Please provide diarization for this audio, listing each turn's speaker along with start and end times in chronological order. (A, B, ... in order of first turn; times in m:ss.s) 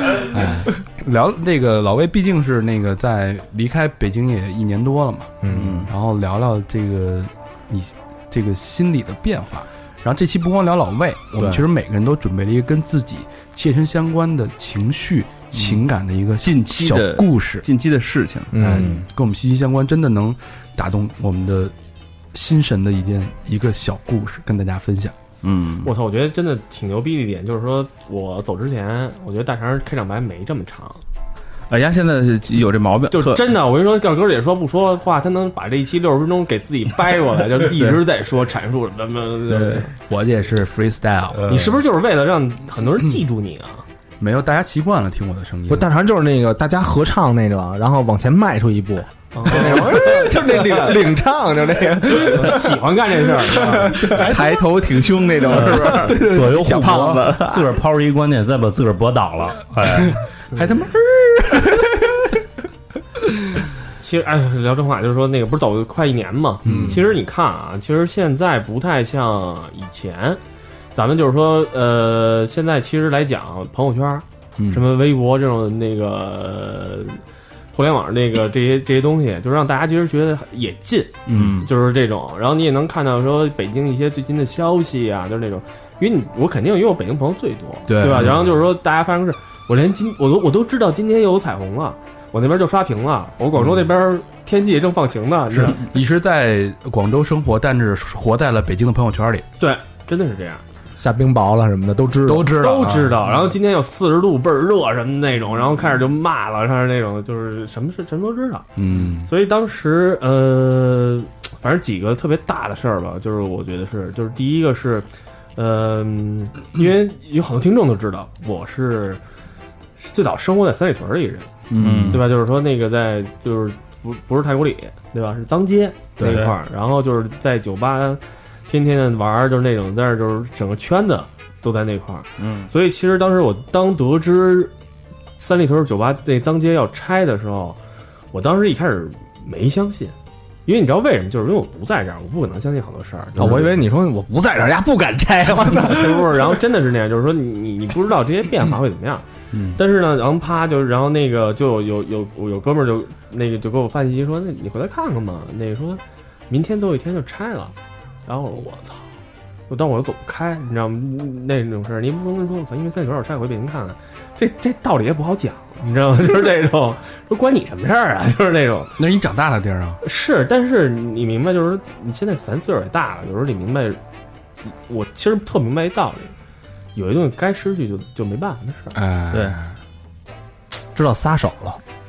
0:00.2-0:17.6 A
0:05.4-0:05.8 B
0:05.5-0:05.9 C
0:11.4-0:11.7 B
0:15.5-0:15.8 D
0:16.4-0:18.5 D
0:18.5-0:19.0 B
0:18.6-0:21.7 A
0:22.3-0:25.1 A
0:25.4-0:25.9 D
0:25.8-0:31.0 E
0:31.7-0:33.5 D
0:33.1-0:39.9 E
0:37.6-0:38.0 D
0:39.5-0:39.8 D
0:40.1-0:41.8 A
0:41.4-0:43.8 E
0:44.2-0:45.9 A
0:45.7-0:52.7 B
0:49.3-0:51.1 E
0:52.1-0:54.2 E
0:53.4-0:54.4 B
0:54.0-0:57.7 D
0:55.5-0:56.9 B
0:55.5-1:00.2 C
0:55.5-0:56.0 E
1:00.1-1:02.3 A
1:03.3-1:03.6 A
1:04.0-1:10.4 E
1:06.6-1:07.0 B
1:06.6-1:07.0 A
1:10.9-1:17.2 E
1:14.6-1:14.8 A
1:17.7-1:35.8 E
1:21.3-1:21.7 A
1:21.3-1:21.7 D
1:27.8-1:28.6 A
1:33.6-1:33.8 A
1:35.5-1:39.4 A
1:39.6-1:40.6 E
1:41.0-1:42.6 B
1:42.2-1:43.3 A
1:42.6-1:48.6 E
1:48.8-1:49.3 A
1:49.2-1:59.2 E
2:00.0-2:01.5 E
2:01.7-2:02.2 A
2:01.7-2:02.2 D
2:02.1-2:14.7 E
2:06.2-2:06.5 A
2:06.2-2:06.5 D
2:12.4-2:12.7 D
2:15.4-2:17.8 E
2:18.3-2:20.1 E
2:20.6-2:23.8 E
2:23.4-2:26.6 B
2:25.7-2:29.2 E
2:29.5-2:29.8 A
2:29.8-2:37.7 E
2:38.2-2:39.1 E
2:39.7-2:49.0 E
2:49.0-2:50.0 A
2:50.0-2:54.0 E
2:54.6-2:56.3 E
2:56.9-2:59.0 E
2:58.9-2:59.7 A
2:59.3-2:59.6 D
3:00.9-3:01.8 B